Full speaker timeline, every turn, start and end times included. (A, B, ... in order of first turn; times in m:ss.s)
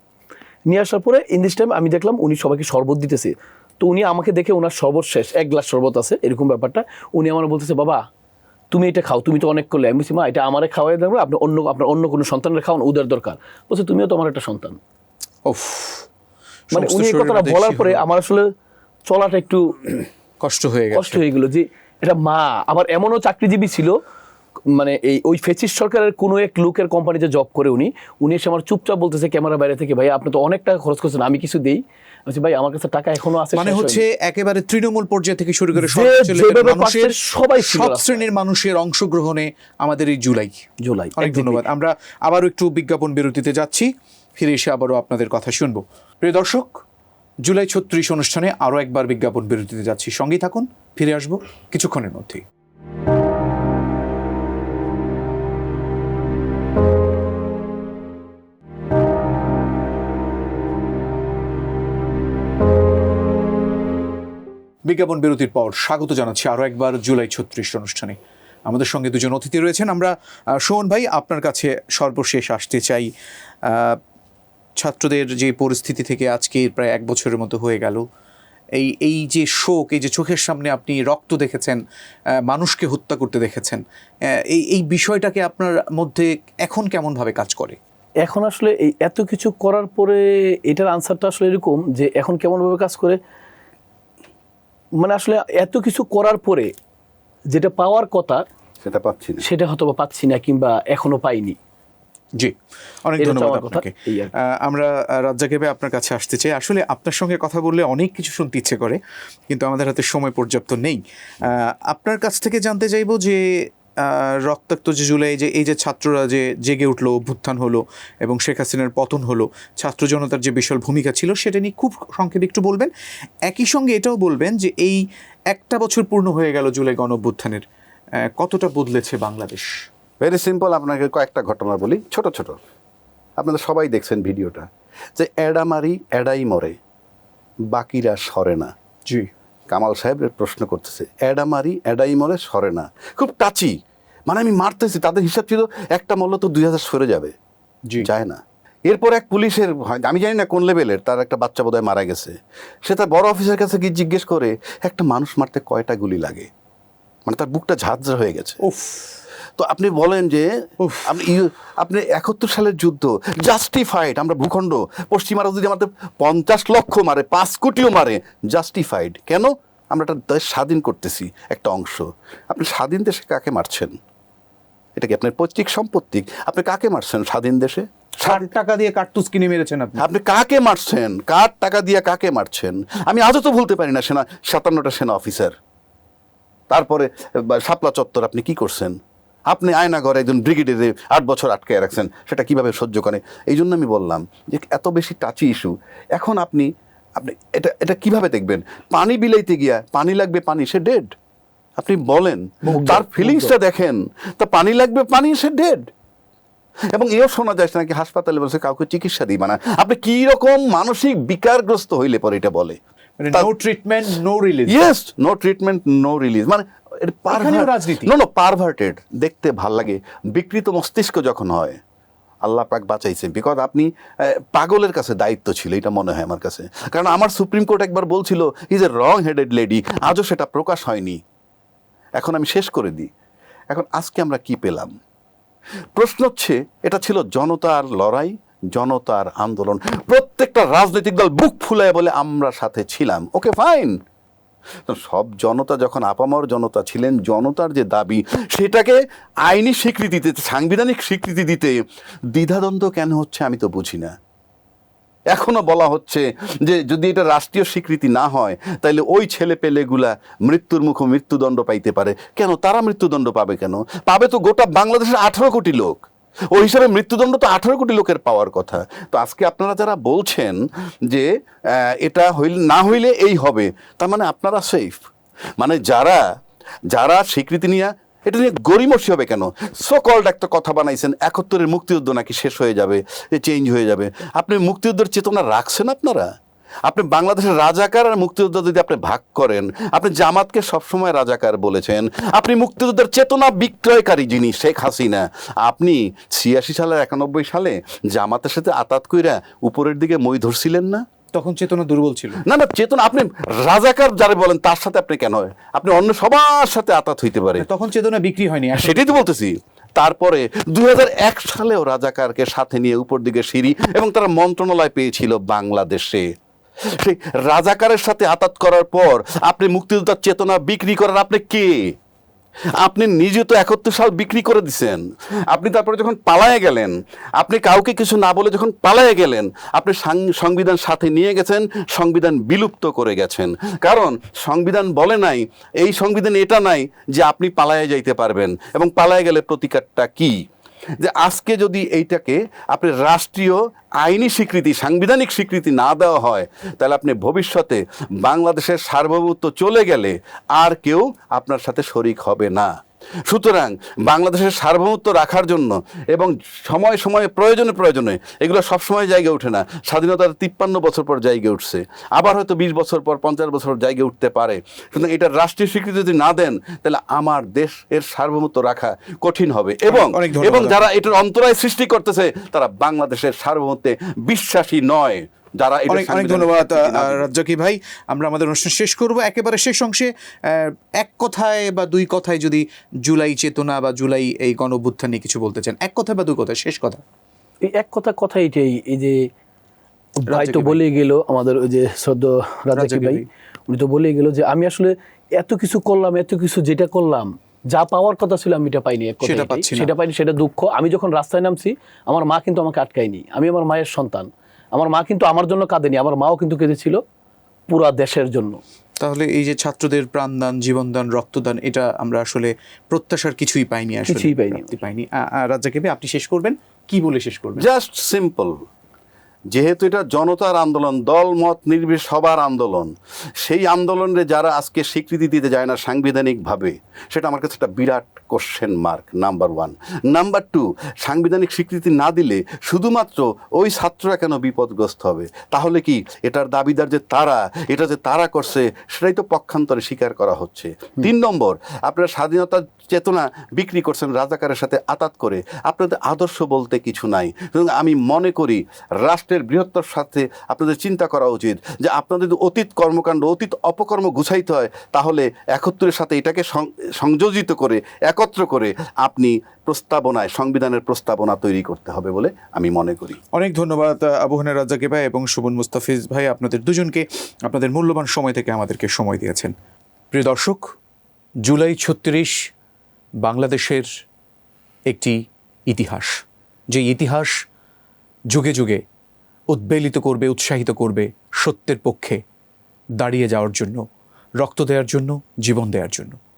0:00.7-0:08.0 A
0:08.7-0:14.8 A
0:15.5-0:16.1 B
0:16.7-0:18.0 B
0:16.7-0:18.5 A
0:19.1-0:20.0 A
0:20.4-0:21.2 B
0:20.9-0:24.0 A
0:24.7-0:34.0 A
0:33.6-0:40.6 B
0:35.8-0:38.2 A
0:40.8-0:41.6 A
0:41.2-0:46.8 B
0:47.4-0:52.4 B
1:04.8-1:13.1 B
1:13.6-1:14.0 B
1:14.8-1:18.0 B
1:18.8-1:21.8 B
1:22.4-1:27.8 B
1:28.2-1:33.2 A
1:35.0-1:36.7 A
1:37.5-1:38.4 A
1:38.8-1:39.4 C
1:39.4-1:41.6 A
1:42.4-1:49.0 B
1:43.2-1:44.3 A
1:49.5-2:02.9 B
2:03.4-2:07.6 B
2:08.2-2:09.7 B
2:10.2-2:12.6 C
2:13.4-2:16.8 C
2:17.7-2:18.7 C
2:19.7-2:23.8 C
2:24.3-2:27.3 C
2:28.0-2:36.5 C
2:37.2-2:38.6 C
2:38.6-2:39.1 B
2:39.6-2:54.0 C
2:40.8-2:41.1 B
2:55.0-2:58.5 C
2:58.2-3:00.0 B
3:00.0-3:05.6 C
3:06.7-3:09.0 C
3:09.5-3:21.1 C
3:21.8-3:25.9 C
3:22.7-3:23.5 A
3:26.9-3:32.8 C
3:33.2-3:34.9 B
3:34.7-3:41.8 C
3:37.3-3:38.1 B
3:42.4-3:51.2 C
3:52.2-3:53.1 C
3:53.7-3:54.9 C
3:56.0-4:04.0 C
4:04.9-4:14.1 C
4:15.3-4:35.0 C
4:35.6-4:36.2 C
4:36.9-4:46.3 C
4:46.8-5:01.0 C
5:01.3-5:02.4 B
5:02.4-5:07.7 C
5:07.6-5:09.2 B
5:08.7-5:16.3 C
5:16.8-5:22.0 C
5:22.8-5:40.4 C
5:41.0-5:52.7 C
5:53.3-6:17.3 C
6:09.9-6:10.8 B
6:15.9-6:27.0 B
6:27.6-6:29.3 A
6:30.2-6:47.0 A
6:30.3-6:30.8 B
6:32.7-6:33.3 B
6:39.2-6:39.9 B
6:47.7-6:48.6 A
6:49.0-6:57.7 B
6:54.1-6:54.7 A
6:57.6-6:58.6 C
6:59.5-7:43.2 C
7:43.3-7:49.5 B
7:50.1-7:50.6 B
7:51.4-7:52.5 B
7:53.2-7:53.9 B
7:54.9-7:57.3 B
7:58.3-7:58.8 B
7:59.5-8:02.2 B
8:03.0-8:03.8 B
8:04.4-8:06.2 B